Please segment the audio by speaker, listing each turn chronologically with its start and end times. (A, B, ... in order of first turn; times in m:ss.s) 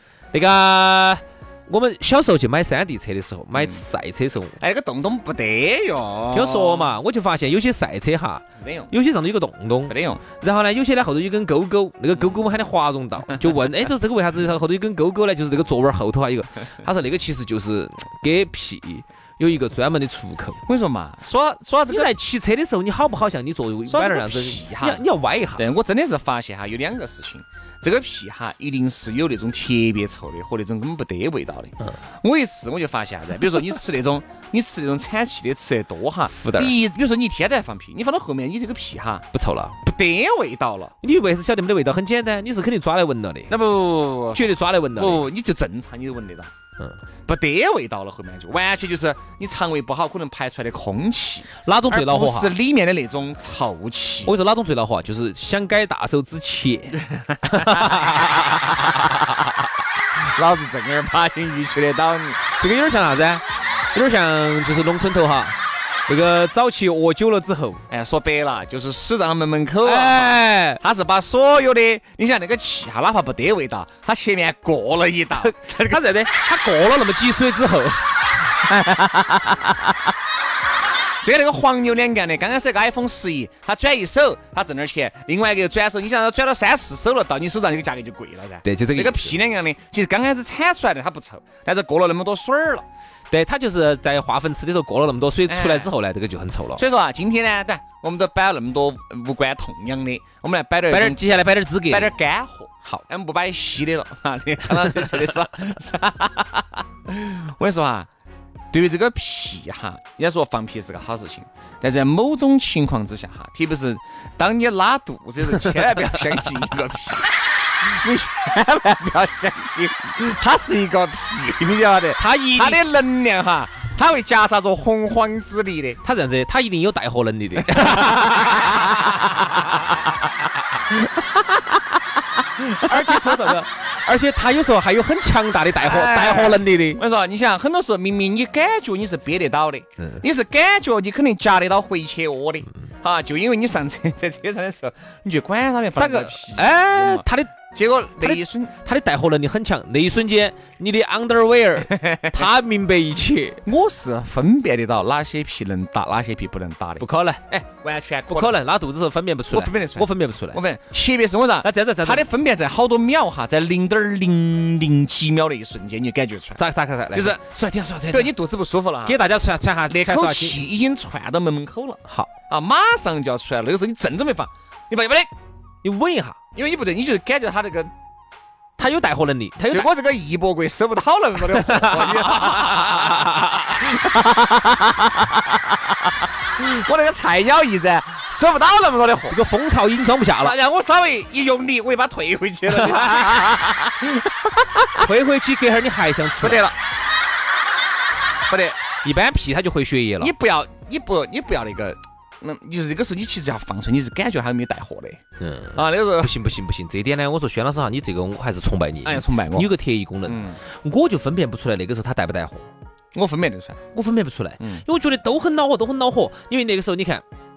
0:00.3-0:04.6 A
0:03.5-0:03.8 B
0:04.6-0:06.9 B
0:06.3-0:20.6 A
0:08.6-0:08.9 B
0:09.9-0:10.2 B
0:20.6-0:22.1 B
0:21.9-0:25.7 A
0:23.9-0:25.0 B
0:25.6-0:39.2 B
0:36.3-0:36.7 A
0:39.3-0:39.8 A
0:39.8-0:40.9 B
0:41.0-0:43.6 A
0:43.5-0:44.4 B
0:44.3-0:45.2 A
0:45.0-0:46.5 B
0:47.2-0:54.3 B
0:51.6-0:52.6 A
0:54.2-0:59.1 A
0:57.5-0:57.8 B
1:00.2-1:02.4 B
1:02.5-1:03.4 A
1:03.9-1:05.6 A
1:06.1-1:07.8 A
1:07.9-1:16.0 B
1:09.8-1:10.8 A
1:15.3-1:18.0 A
1:18.6-1:19.7 B
1:21.2-1:32.8 B
1:28.6-1:29.4 A
1:33.3-1:36.8 A
1:35.5-1:35.9 B
1:36.8-1:41.3 B
1:40.9-1:42.1 A
1:41.9-1:48.1 B
1:48.7-2:06.0 B
2:02.2-2:02.8 A
2:06.0-2:10.0 A
2:08.0-2:09.0 B
2:10.9-2:11.4 B
2:12.6-2:13.6 B
2:12.8-2:17.0 A
2:15.8-2:28.7 B
2:26.0-2:27.5 A
2:28.2-2:33.6 A
2:31.9-2:32.2 B
2:33.6-2:38.6 B
2:37.0-2:37.4 A
2:38.3-2:40.6 A
2:39.5-2:49.2 B
2:41.6-2:42.3 A
2:46.6-2:48.3 A
2:49.0-2:50.6 A
2:49.9-2:55.3 B
2:55.8-2:56.4 A
2:56.5-2:57.9 B
2:58.8-2:59.9 A
2:59.7-3:09.4 B
3:01.5-3:03.5 A
3:09.3-3:10.6 A
3:10.4-3:14.9 B
3:12.7-3:13.4 A
3:15.0-3:16.6 A
3:16.4-3:16.7 B
3:18.5-3:18.8 B
3:19.0-3:20.3 A
3:20.2-3:25.2 B
3:25.4-3:32.7 A
3:25.7-3:26.3 B
3:29.0-3:29.7 B
3:30.2-3:30.6 B
3:33.1-3:33.8 B
3:33.9-3:37.2 A